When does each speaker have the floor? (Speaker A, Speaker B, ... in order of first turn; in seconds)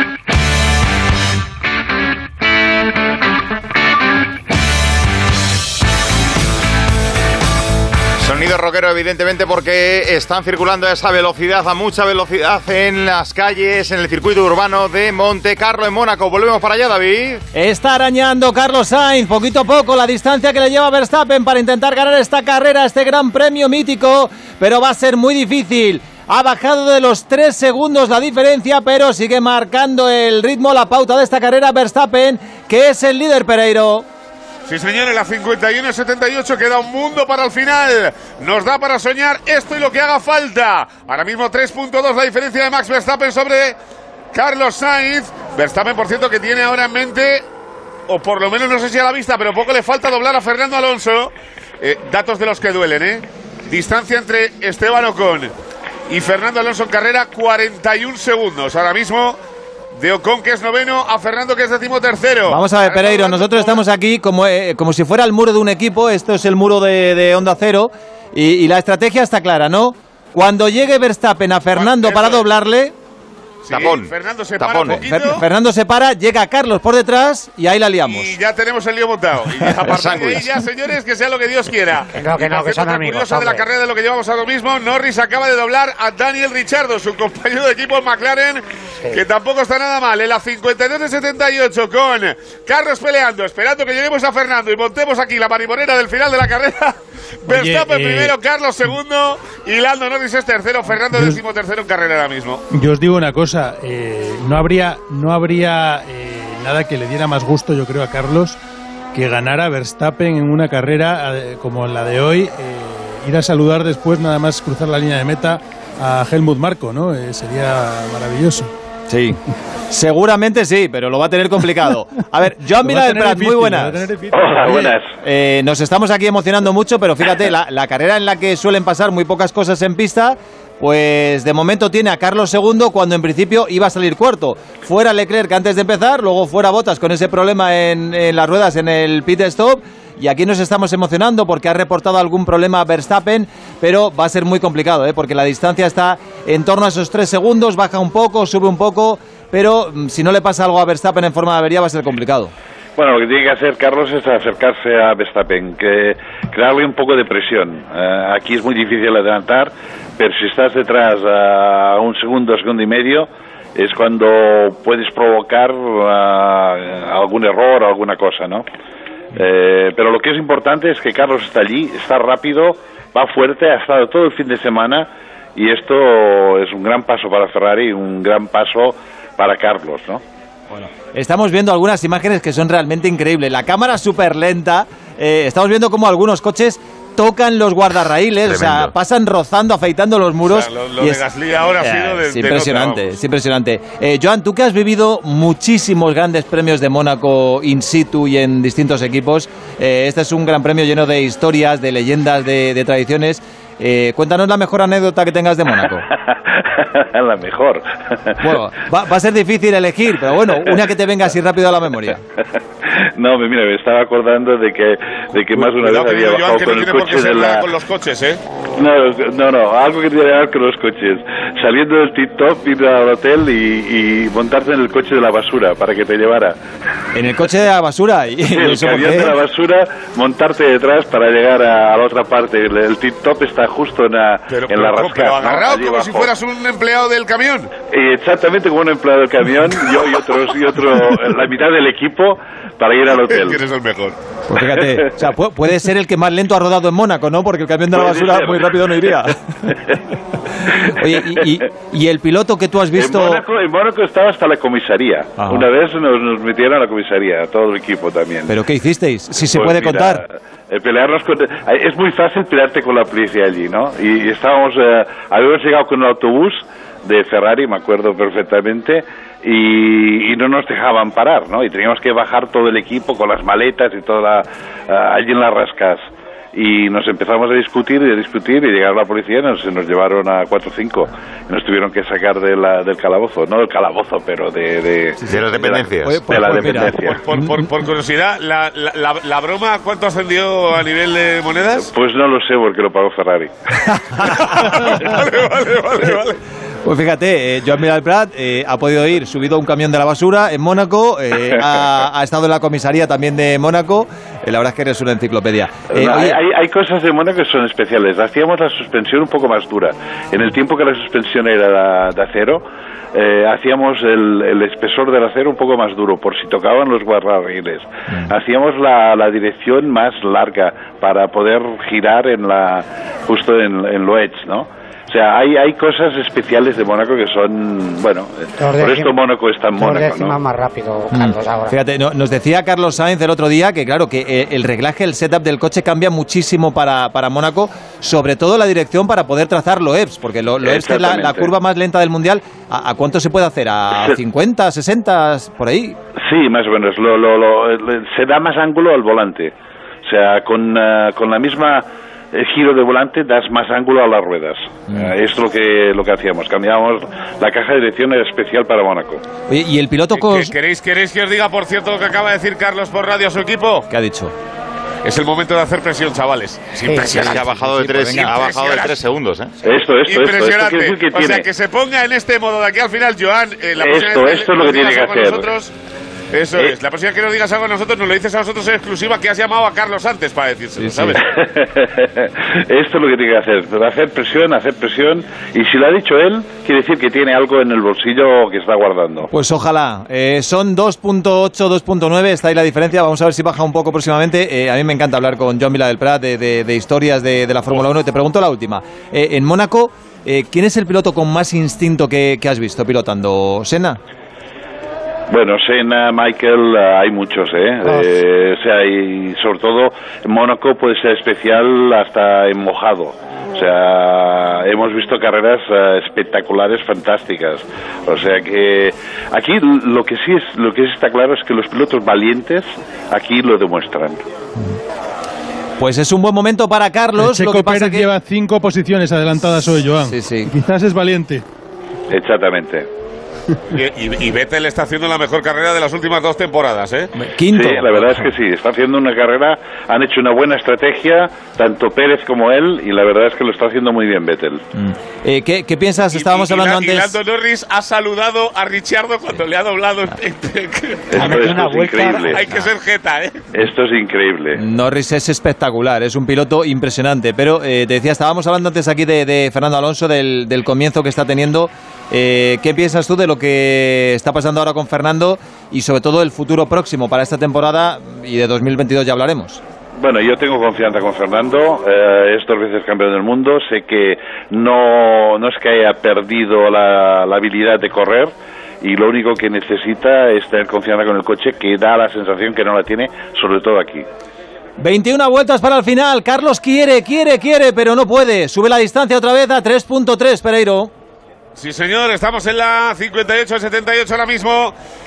Speaker A: 8.2-17.4, 73.7-75.0, 79.8-80.5, 188.5-188.9, 285.3-286.9, 367.1-369.5
Speaker B: 17.5-34.1, 62.5-72.9, 74.9-78.3, 119.1-119.4, 119.9-124.0, 125.2-152.5, 180.7-191.2, 191.8-206.1, 208.4-212.2, 227.2-229.4, 244.5-249.4, 250.9-253.4, 255.4-255.7, 258.5-260.2, 286.0-287.5, 296.9-306.4, 331.1-346.0, 359.5-360.5, 363.9-364.3, 367.2-368.4, 380.8-381.2, 389.3-404.0, 425.8-428.1, 430.1-430.5, 437.1-438.3, 444.8-447.1, 454.6-469.6, 484.8-490.9
Speaker C: 34.7-43.8, 44.3-47.5, 48.1-55.5, 56.1-59.4, 60.0-63.8, 71.8-72.5, 73.6-75.4, 78.1-102.6, 190.5-193.2, 215.5-218.4, 234.5-237.7, 243.1-244.2, 287.0-291.9, 294.4-296.4, 360.1-363.9, 365.0-367.4, 368.1-369.0, 370.1-375.7, 376.3-381.2, 433.7-437.1, 446.1-451.6, 452.3-453.4, 491.6-494.8
Speaker D: 82.1-83.7, 328.6-329.2, 329.8-331.8, 366.8-367.2, 407.8-408.1, 451.2-452.4
Speaker E: 97.5-98.3, 101.1-101.4, 102.7-108.6, 109.1-118.7, 122.8-125.0, 427.2-431.4
Speaker F: 124.3-125.1, 153.0-168.7, 169.3-180.2, 206.1-208.4, 212.9-217.7, 218.8-226.6, 228.5-236.3, 237.9-243.6, 244.8-245.1, 247.9-249.9, 251.3-251.7, 252.9-258.6, 259.4-287.2, 291.8-293.5, 305.9-330.4, 340.6-341.5, 346.2-349.5, 350.1-359.2, 369.6-371.4, 373.8-375.5, 381.2-389.3, 405.3-424.2, 432.1-432.9, 437.5-444.6, 451.1-452.4, 453.5-454.6, 470.0-484.1